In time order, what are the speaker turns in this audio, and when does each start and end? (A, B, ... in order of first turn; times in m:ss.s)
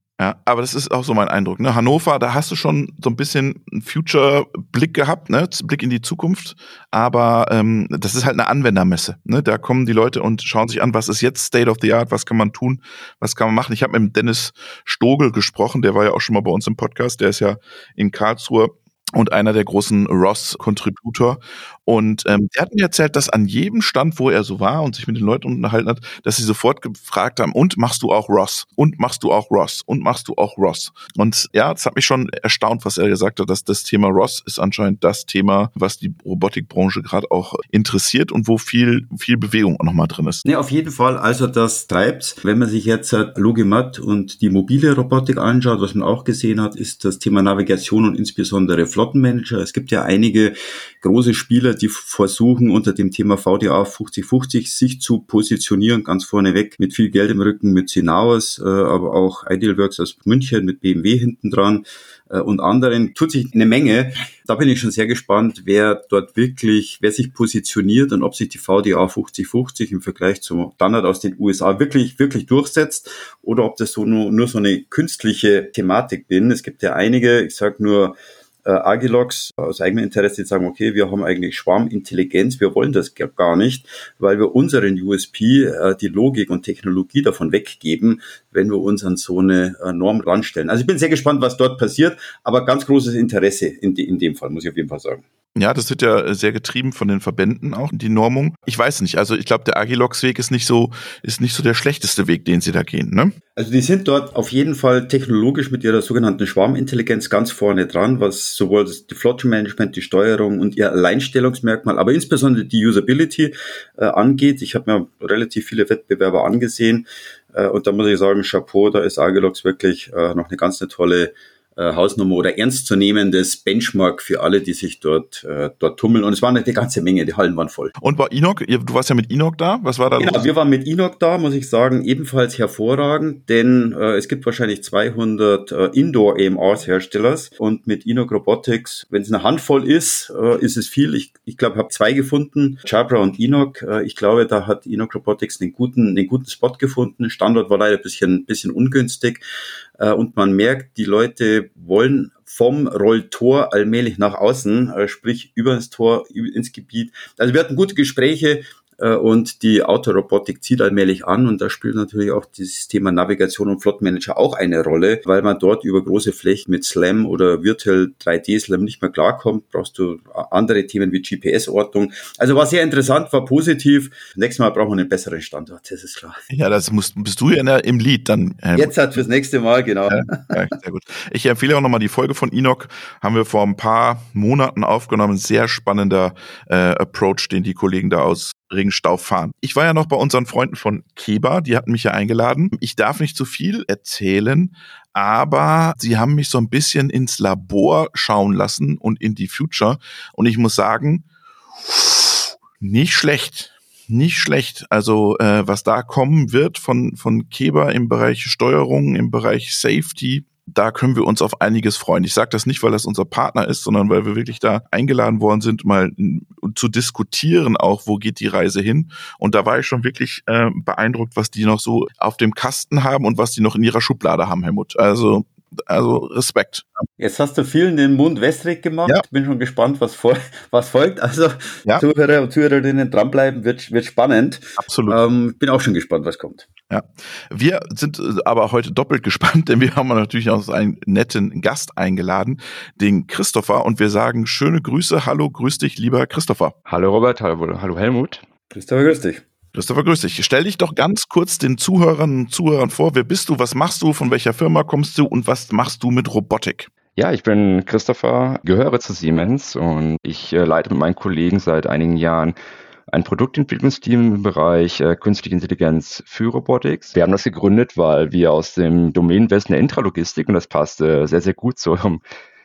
0:00.2-0:40.4 A
0:40.4-1:35.2 B
1:35.6-1:43.4 A
1:43.6-2:08.0 B
2:08.0-2:10.4 A
2:10.2-2:29.4 B
2:30.0-2:56.4 B
2:56.5-2:58.9 A
2:58.8-3:00.7 B
3:00.1-3:21.2 A
3:21.8-3:47.0 A
3:47.2-3:56.7 B
3:54.8-3:55.2 A
3:56.9-4:06.8 A
4:06.9-4:08.4 C
4:08.7-4:09.4 B
4:09.7-4:16.9 A
4:17.2-4:22.6 C
4:23.1-4:32.2 C